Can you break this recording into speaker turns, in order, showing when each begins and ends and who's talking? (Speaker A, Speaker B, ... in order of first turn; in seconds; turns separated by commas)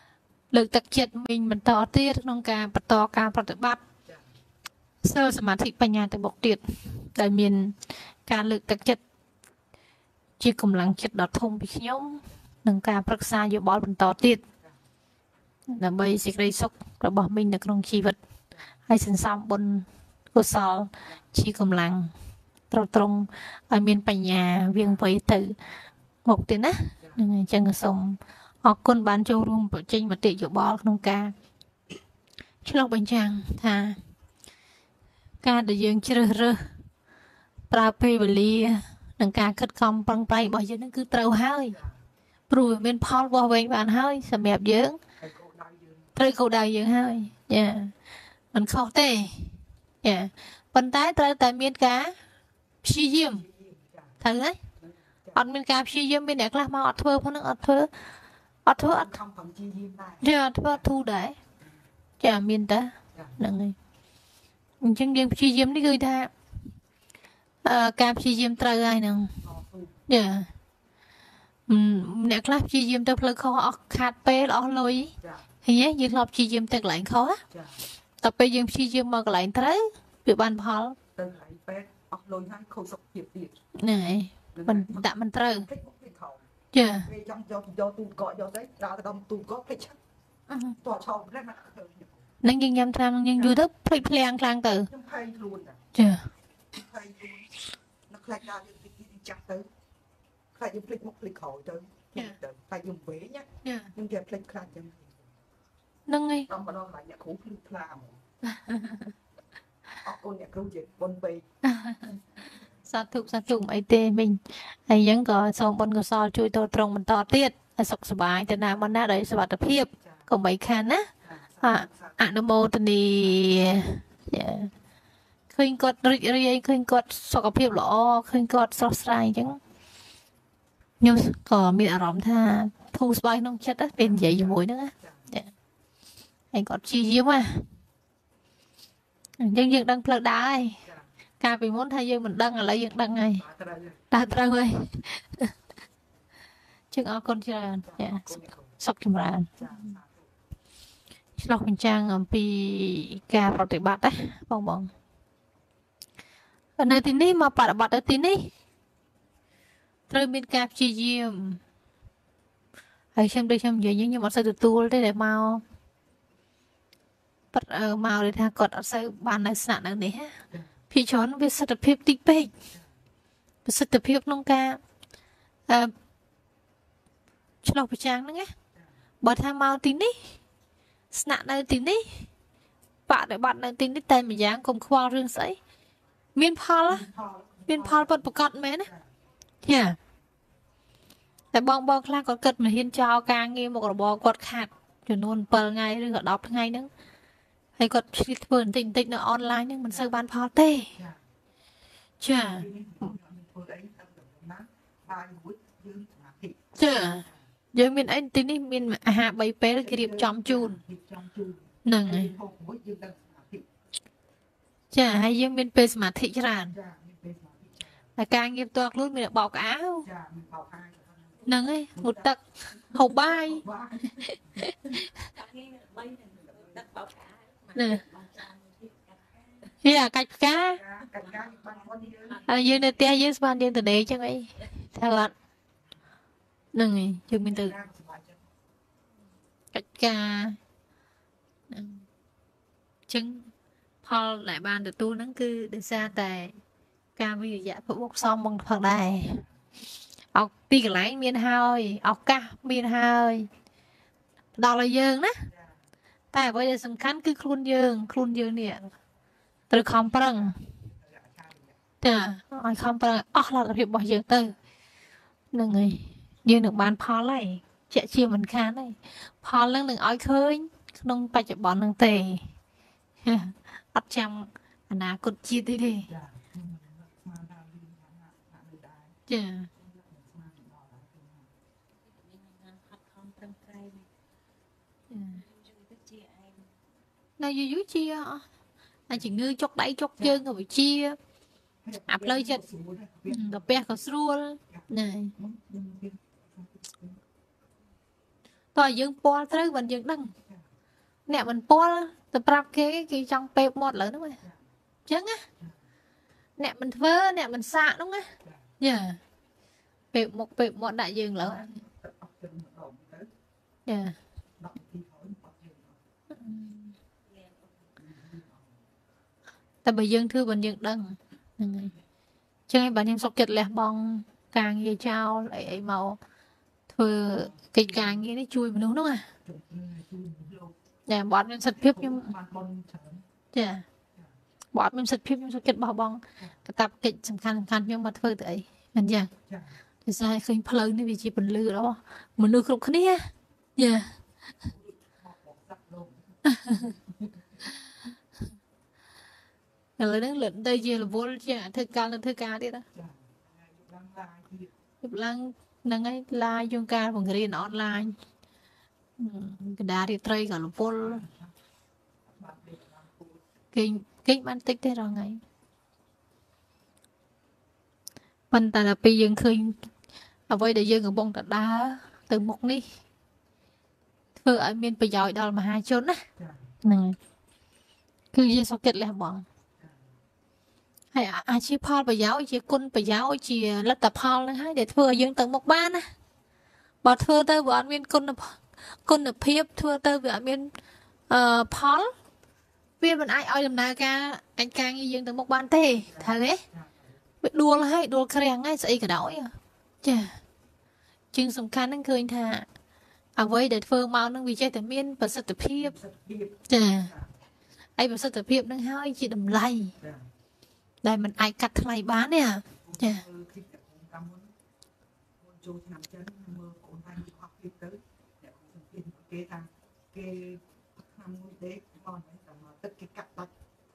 Speaker A: 0.5-3.8, Speaker A: 5.0-9.0, Speaker A: 10.4-14.4, Speaker A: 15.7-18.2, Speaker A: 18.9-22.1, Speaker A: 22.7-25.6, Speaker A: 26.2-31.3, Speaker A: 32.6-34.0, Speaker A: 35.4-36.8, Speaker A: 37.7-41.8, Speaker B: 41.7-42.0, Speaker A: 42.5-45.0, Speaker B: 45.2-46.1, Speaker A: 46.1-47.9, Speaker A: 48.5-52.1, Speaker A: 52.8-53.4, Speaker B: 53.3-54.2, Speaker A: 54.2-54.6, Speaker B: 54.8-55.4, Speaker A: 55.3-57.9, Speaker A: 58.6-59.2, Speaker B: 58.7-60.9, Speaker A: 60.2-61.4, Speaker A: 62.2-63.8, Speaker A: 64.8-66.3, Speaker A: 67.6-69.4, Speaker B: 69.4-70.0, Speaker A: 70.1-70.5, Speaker A: 71.7-77.4, Speaker B: 75.2-75.5, Speaker B: 77.5-77.8, Speaker A: 78.2-81.0, Speaker B: 81.1-83.6, Speaker A: 83.8-85.7, Speaker B: 84.5-90.0, Speaker A: 86.7-87.1, Speaker A: 90.5-90.8, Speaker B: 90.8-92.3, Speaker A: 92.4-94.9, Speaker B: 94.9-95.8, Speaker A: 95.9-96.3, Speaker B: 96.7-99.7, Speaker B: 100.5-105.3, Speaker A: 103.6-103.9, Speaker A: 106.1-106.5, Speaker B: 106.5-108.2, Speaker A: 108.5-109.1, Speaker B: 110.0-111.5, Speaker A: 111.6-112.2, Speaker A: 112.8-121.1, Speaker B: 118.6-119.0, Speaker B: 120.0-120.3, Speaker B: 121.2-122.3, Speaker A: 121.6-124.7, Speaker B: 123.2-123.8, Speaker A: 125.5-129.6, Speaker A: 131.0-135.5, Speaker B: 133.9-135.3, Speaker A: 136.5-137.7, Speaker A: 139.4-140.8, Speaker B: 140.8-141.1, Speaker A: 141.4-143.4, Speaker B: 143.4-144.0, Speaker A: 144.1-145.5, Speaker A: 146.9-149.9, Speaker B: 147.8-148.7, Speaker B: 149.6-150.3, Speaker A: 151.4-154.9, Speaker A: 156.8-158.5, Speaker A: 160.1-161.6, Speaker A: 163.1-165.6, Speaker A: 167.5-170.4, Speaker A: 170.9-172.5, Speaker A: 173.6-174.8, Speaker A: 175.7-175.9, Speaker A: 177.6-178.5, Speaker A: 179.2-180.3, Speaker A: 181.1-182.3, Speaker A: 183.1-185.6, Speaker A: 186.3-187.1, Speaker B: 186.9-189.1, Speaker A: 187.7-188.9, Speaker A: 189.6-190.0, Speaker A: 191.5-196.9, Speaker A: 197.8-200.9, Speaker B: 200.9-201.2, Speaker A: 202.2-202.7, Speaker B: 202.5-207.4, Speaker A: 206.8-210.8, Speaker B: 209.8-213.7, Speaker A: 211.8-212.3, Speaker A: 214.9-216.7, Speaker B: 216.7-218.0, Speaker A: 218.2-220.1, Speaker B: 220.0-224.7, Speaker A: 221.4-222.4, Speaker A: 222.9-223.6, Speaker A: 224.2-225.1, Speaker C: 225.1-229.7, Speaker B: 226.5-226.8, Speaker A: 227.7-228.0, Speaker A: 229.8-230.8, Speaker B: 230.6-232.4, Speaker C: 231.1-232.8, Speaker A: 232.4-235.3, Speaker A: 236.7-237.7, Speaker B: 237.4-238.5, Speaker A: 239.7-240.6, Speaker A: 241.7-242.0, Speaker A: 243.1-243.5, Speaker A: 244.0-246.5, Speaker A: 247.2-249.4, Speaker A: 250.3-253.5, Speaker A: 254.6-255.5, Speaker B: 255.5-255.8, Speaker A: 256.3-258.9, Speaker A: 259.7-260.6, Speaker B: 260.6-261.8, Speaker A: 262.0-264.5, Speaker A: 265.5-272.5, Speaker A: 273.2-276.1, Speaker B: 276.1-279.2, Speaker A: 279.3-279.7, Speaker B: 279.8-281.5, Speaker C: 282.0-284.1, Speaker A: 285.1-285.4, Speaker C: 285.2-286.7, Speaker A: 287.4-288.4, Speaker A: 289.1-291.2, Speaker B: 290.2-290.4, Speaker B: 291.8-294.1, Speaker A: 292.1-292.6, Speaker A: 293.3-295.3, Speaker B: 294.7-297.2, Speaker A: 298.7-300.3, Speaker A: 301.3-304.4, Speaker A: 305.1-305.4, Speaker A: 306.6-309.2, Speaker B: 308.4-308.7, Speaker A: 310.1-311.7, Speaker B: 311.5-313.3, Speaker A: 313.9-314.1, Speaker B: 314.6-316.0, Speaker A: 316.3-316.9, Speaker C: 317.2-317.9, Speaker B: 318.0-318.7, Speaker A: 319.8-321.9, Speaker A: 322.7-326.2, Speaker A: 326.9-329.3, Speaker B: 327.4-328.2, Speaker B: 329.4-330.8, Speaker A: 331.1-332.3, Speaker B: 331.7-333.2, Speaker A: 333.5-333.8, Speaker A: 334.7-339.3, Speaker B: 339.5-339.8, Speaker A: 340.0-344.1, Speaker B: 344.6-347.6, Speaker A: 346.4-346.9, Speaker A: 350.0-352.8, Speaker B: 352.9-354.7, Speaker A: 355.0-358.2, Speaker A: 359.2-361.2, Speaker B: 361.0-361.5, Speaker B: 362.3-363.4, Speaker A: 363.7-365.4, Speaker A: 368.5-369.8, Speaker A: 370.5-372.9, Speaker A: 374.4-376.2, Speaker B: 376.4-376.7, Speaker A: 376.8-377.2, Speaker A: 378.3-379.4, Speaker B: 379.8-380.1, Speaker A: 381.1-386.1, Speaker A: 387.0-390.7, Speaker A: 391.3-392.1, Speaker A: 393.0-396.6, Speaker B: 396.0-397.1, Speaker A: 397.4-400.4, Speaker A: 401.3-402.7, Speaker A: 403.4-405.9, Speaker B: 405.8-407.3, Speaker A: 406.7-407.1, Speaker A: 408.0-409.9, Speaker B: 410.0-410.3, Speaker A: 411.0-413.2, Speaker B: 412.7-414.5, Speaker B: 415.4-423.5